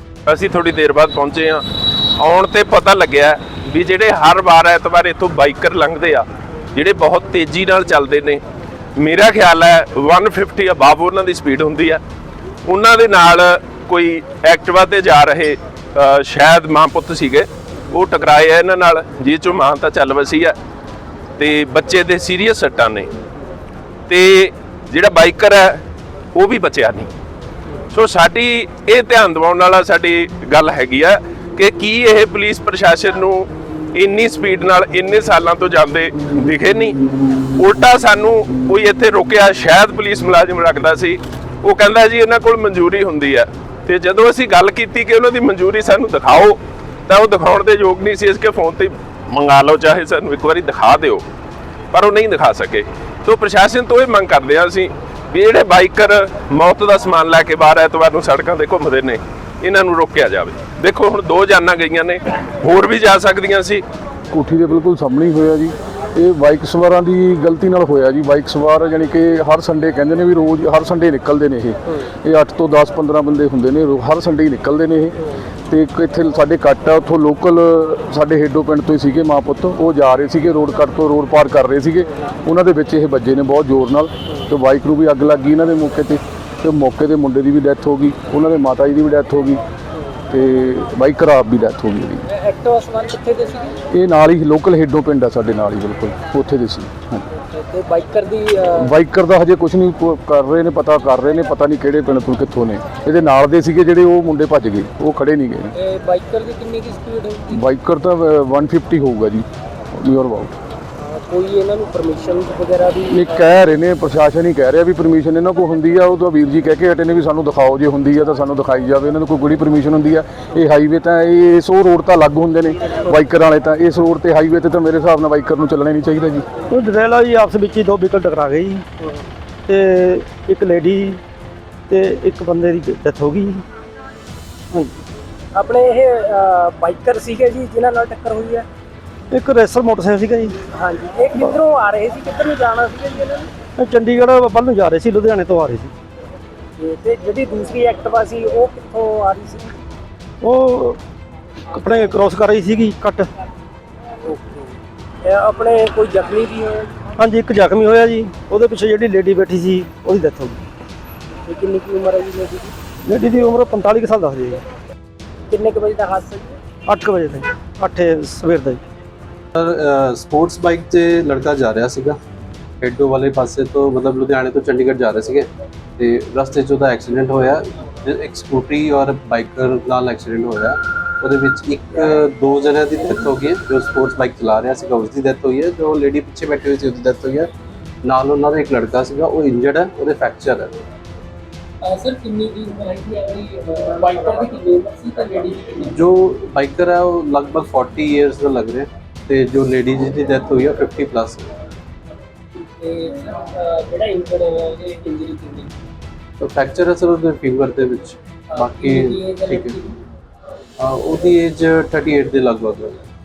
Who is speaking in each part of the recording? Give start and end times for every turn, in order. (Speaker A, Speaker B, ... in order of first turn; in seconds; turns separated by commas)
Speaker A: 0.3-1.6, Speaker A: 2.2-8.4, Speaker A: 9.0-12.0, Speaker A: 12.7-20.6, Speaker A: 21.4-23.1, Speaker A: 24.1-25.8, Speaker A: 26.4-27.1, Speaker A: 27.9-37.0, Speaker A: 37.6-51.2, Speaker A: 51.9-63.8, Speaker B: 64.3-89.6, Speaker B: 90.3-92.2, Speaker C: 92.3-93.8, Speaker B: 93.9-97.2, Speaker C: 97.5-98.8, Speaker B: 98.7-105.7, Speaker C: 105.8-107.6, Speaker B: 107.5-110.5, Speaker C: 111.0-113.2, Speaker B: 113.1-126.4, Speaker D: 126.7-128.9, Speaker D: 129.7-131.2, Speaker D: 131.9-133.6, Speaker D: 134.7-135.0, Speaker C: 135.6-138.7, Speaker D: 139.3-140.6, Speaker C: 140.7-143.5, Speaker D: 143.8-145.9, Speaker C: 146.8-149.8, Speaker D: 150.4-151.0, Speaker D: 151.7-153.3, Speaker C: 154.3-157.1, Speaker D: 157.1-160.6, Speaker C: 161.5-162.7, Speaker D: 163.1-164.6, Speaker C: 165.5-166.6, Speaker D: 166.9-168.8, Speaker E: 169.6-172.2, Speaker E: 172.8-187.5, Speaker E: 188.0-190.8, Speaker C: 191.8-195.9, Speaker E: 195.9-201.5, Speaker C: 202.6-205.7, Speaker E: 206.4-209.8, Speaker C: 208.6-209.8, Speaker E: 210.8-213.0